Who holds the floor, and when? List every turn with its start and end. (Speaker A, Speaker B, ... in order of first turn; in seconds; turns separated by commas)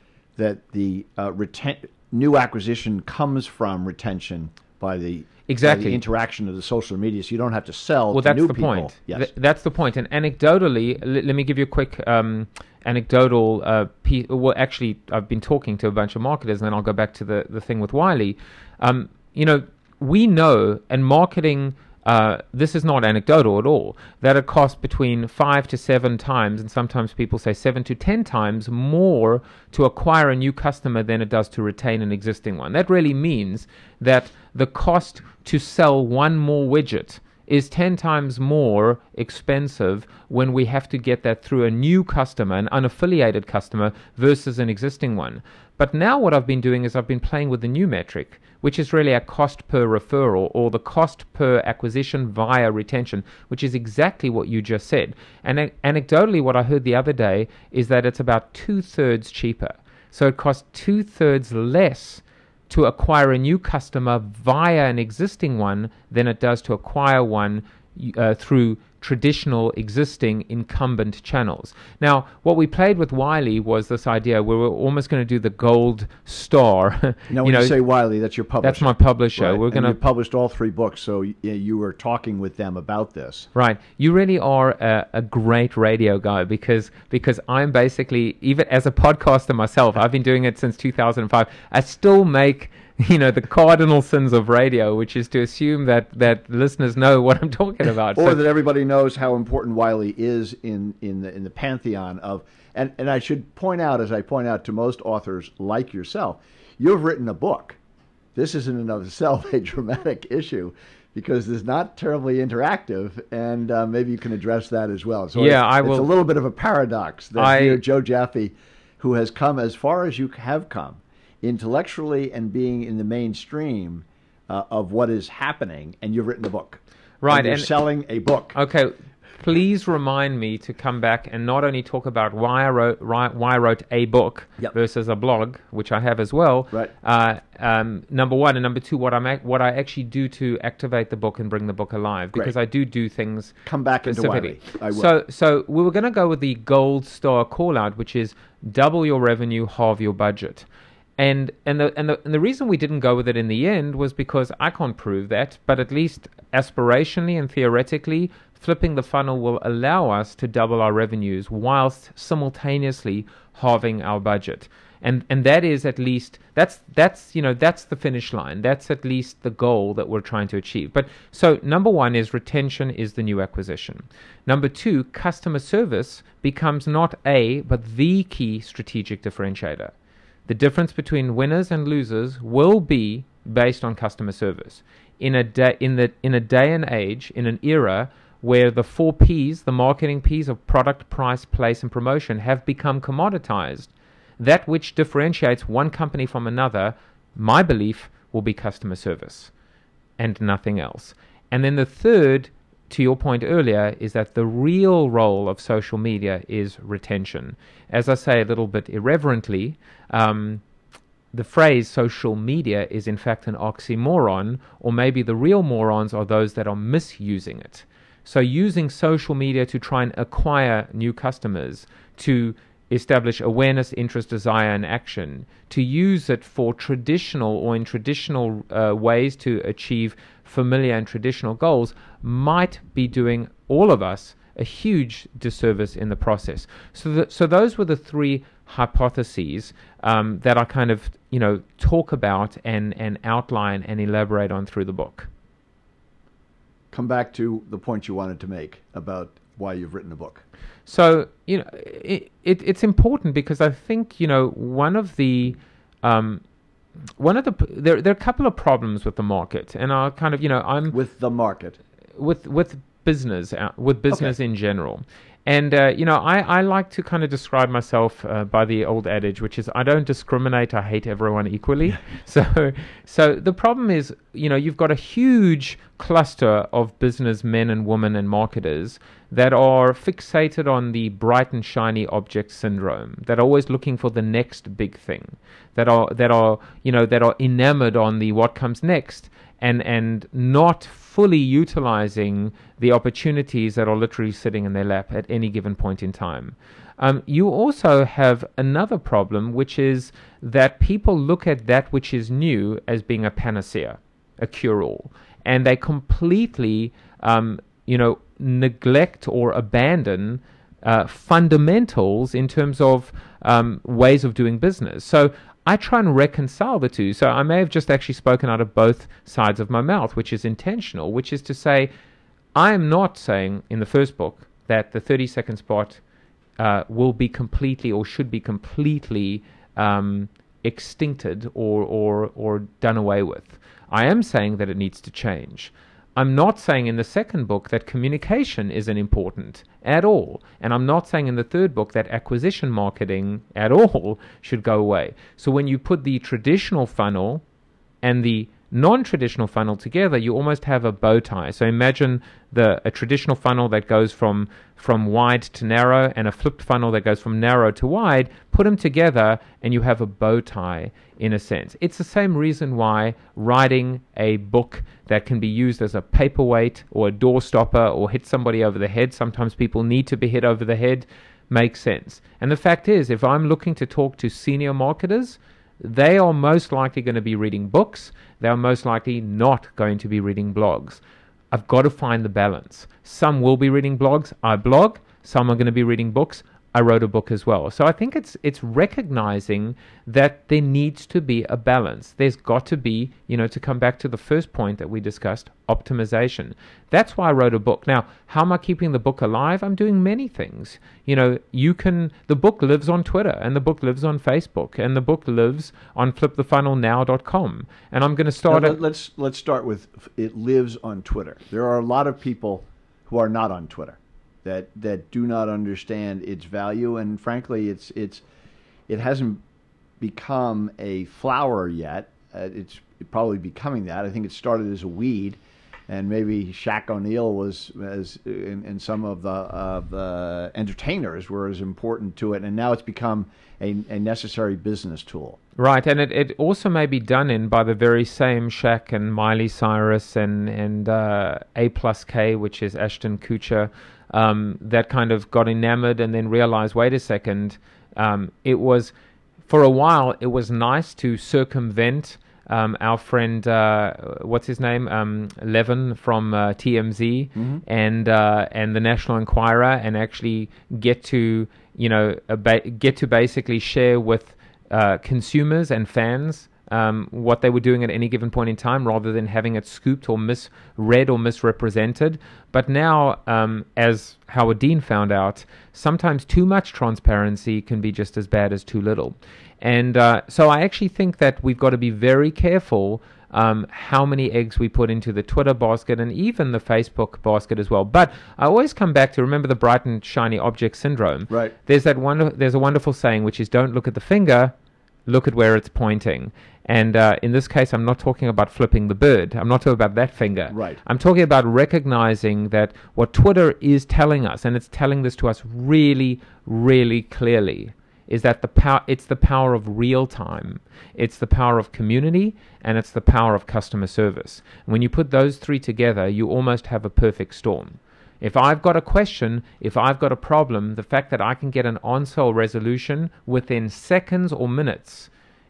Speaker A: 0.4-9.3, Speaker B: 5.5-6.0, Speaker B: 8.1-77.8, Speaker A: 77.3-83.5, Speaker B: 78.6-80.0, Speaker B: 83.5-98.4, Speaker A: 98.1-107.8, Speaker A: 108.3-128.6, Speaker B: 115.3-116.1, Speaker B: 117.4-117.8, Speaker B: 127.2-127.7, Speaker B: 128.5-150.7, Speaker A: 143.6-145.1, Speaker B: 151.2-179.9, Speaker B: 180.5-199.5, Speaker B: 200.2-210.6, Speaker B: 211.3-245.3, Speaker A: 246.9-250.4, Speaker B: 250.9-256.4, Speaker B: 257.2-261.0, Speaker A: 260.9-261.8, Speaker B: 262.2-321.9, Speaker A: 264.1-264.4, Speaker B: 322.6-326.0, Speaker B: 326.6-347.4, Speaker B: 348.0-408.8, Speaker A: 408.5-418.2, Speaker A: 418.9-419.4, Speaker A: 420.0-435.4, Speaker B: 435.6-448.9, Speaker B: 449.5-494.5, Speaker A: 457.4-457.6, Speaker A: 491.3-491.5, Speaker B: 495.1-525.1, Speaker A: 500.5-500.8